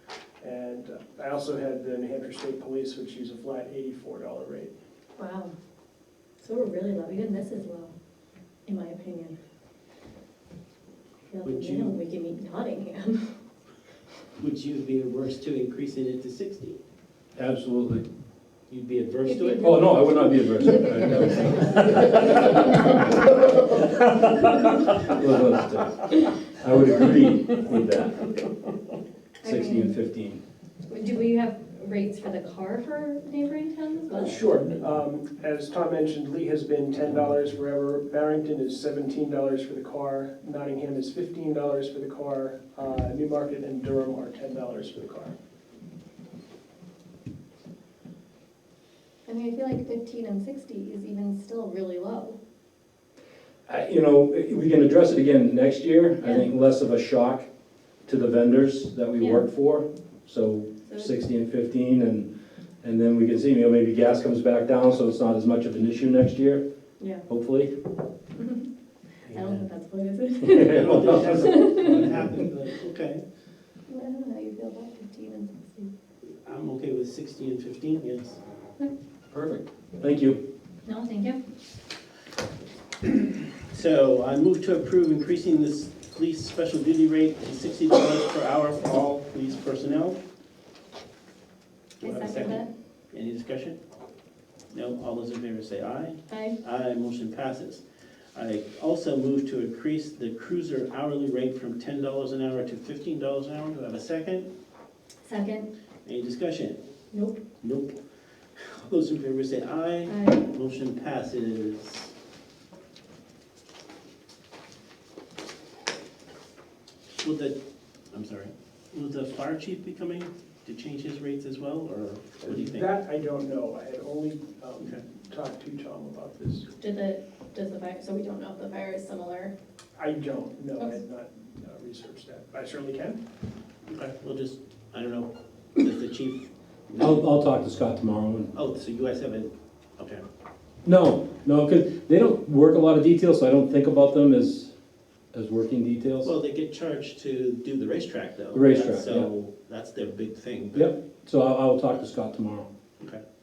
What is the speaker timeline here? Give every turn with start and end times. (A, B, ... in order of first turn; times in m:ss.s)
0:00.4-0:04.7 A
0:05.2-0:05.5 B
0:06.4-0:07.9 B
0:08.6-0:09.4 B
0:11.3-0:13.3 B
0:11.4-0:11.9 C
0:14.4-0:16.8 C
0:17.4-0:18.0 D
0:18.7-0:19.9 C
0:19.3-0:22.9 B
0:19.6-0:28.3 D
0:29.4-0:29.9 B
0:29.4-0:30.4 D
0:30.9-0:34.5 B
0:34.1-0:45.3 A
0:49.2-0:52.4 B
0:53.7-0:57.5 D
0:56.2-0:56.5 B
0:58.0-1:02.3 D
0:59.2-0:59.4 B
1:02.8-1:06.6 D
1:07.0-1:07.2 B
1:07.3-1:07.7 D
1:08.4-1:08.6 B
1:09.2-1:12.3 B
1:09.3-1:09.6 C
1:10.4-1:12.3 D
1:10.6-1:13.2 C
1:13.9-1:15.9 B
1:16.3-1:18.4 C
1:19.3-1:20.4 D
1:20.8-1:21.4 B
1:23.0-1:30.2 C
1:32.0-1:33.8 C
1:32.0-1:32.7 B
1:34.7-1:37.8 C
1:36.3-1:36.6 B
1:38.3-1:44.5 C
1:45.2-1:45.7 B
1:46.0-1:46.8 C
1:47.1-1:47.4 B
1:47.6-1:48.0 C
1:48.5-1:52.1 C
1:50.1-1:50.5 B
1:57.1-1:57.6 C
1:58.1-2:03.0 C
2:02.4-2:06.7 A
2:06.8-2:09.5 B
2:10.0-2:13.2 A
2:13.9-2:17.2 C
2:17.0-2:18.5 D
2:18.5-2:20.2 C
2:20.8-2:24.7 D
2:25.3-2:26.3 D
2:26.2-2:30.9 C
2:28.5-2:29.3 D
2:30.7-2:32.7 D